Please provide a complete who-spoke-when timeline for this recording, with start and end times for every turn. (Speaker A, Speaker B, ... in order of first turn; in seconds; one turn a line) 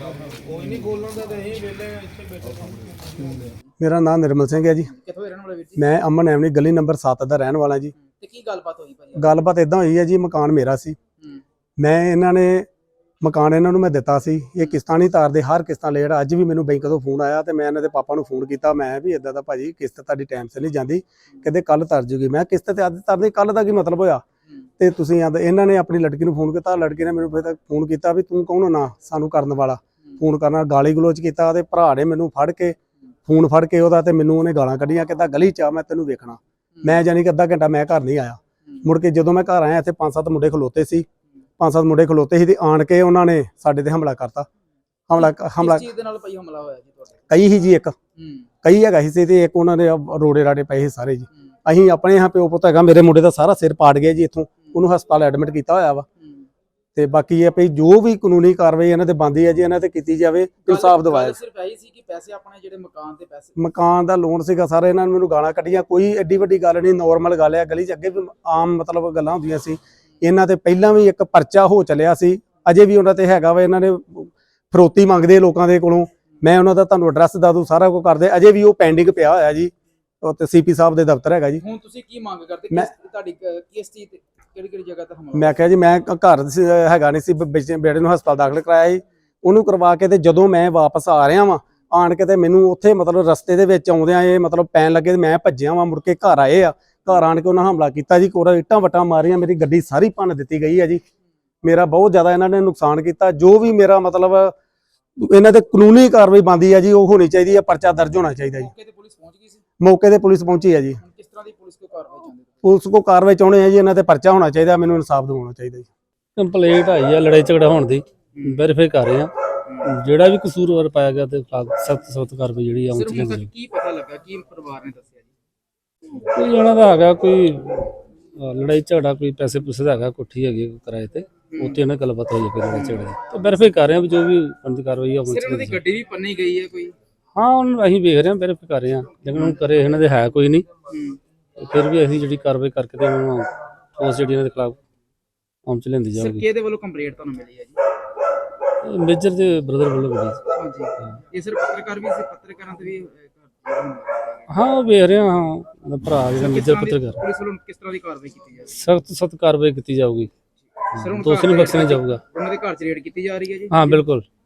Speaker A: 0.4-3.4
Speaker B: 3.2-3.7
Speaker C: 3.8-4.9
Speaker B: 4.8-5.8
Speaker C: 5.8-7.9
Speaker B: 8.0-9.4
Speaker C: 9.2-11.0
Speaker B: 11.2-11.4
Speaker C: 11.8-12.7
Speaker C: 13.2-24.2
Speaker C: 24.8-41.1
Speaker B: 36.7-37.0
Speaker C: 41.6-44.5
Speaker C: 45.1-45.9
Speaker B: 45.2-47.2
Speaker C: 47.3-48.0
Speaker B: 48.1-48.5
Speaker C: 48.6-56.0
Speaker B: 56.2-56.5
Speaker C: 56.9-61.4
Speaker B: 60.7-63.6
Speaker C: 63.6-81.6
Speaker B: 81.6-85.7
Speaker C: 85.3-101.0
Speaker C: 101.6-104.5
Speaker C: 105.2-108.7
Speaker B: 108.5-109.6
Speaker C: 109.8-111.0
Speaker B: 111.0-112.5
Speaker C: 112.6-115.9
Speaker D: 116.3-119.3
Speaker B: 118.3-118.6
Speaker B: 119.6-119.9
Speaker D: 119.8-123.5
Speaker B: 122.9-125.3
Speaker D: 126.1-135.8
Speaker B: 131.5-131.8
Speaker B: 132.7-134.1
Speaker B: 135.2-136.9
Speaker D: 137.3-140.7
Speaker B: 139.3-139.6
Speaker B: 140.9-141.2
Speaker D: 141.6-144.8
Speaker D: 145.7-146.4
Speaker B: 146.1-147.8
Speaker D: 148.8-150.4
Speaker B: 150.5-154.5
Speaker D: 154.5-157.2
Speaker B: 156.3-158.8
Speaker D: 158.8-160.3
Speaker B: 160.8-164.0
Speaker D: 160.9-162.2
Speaker D: 163.7-164.2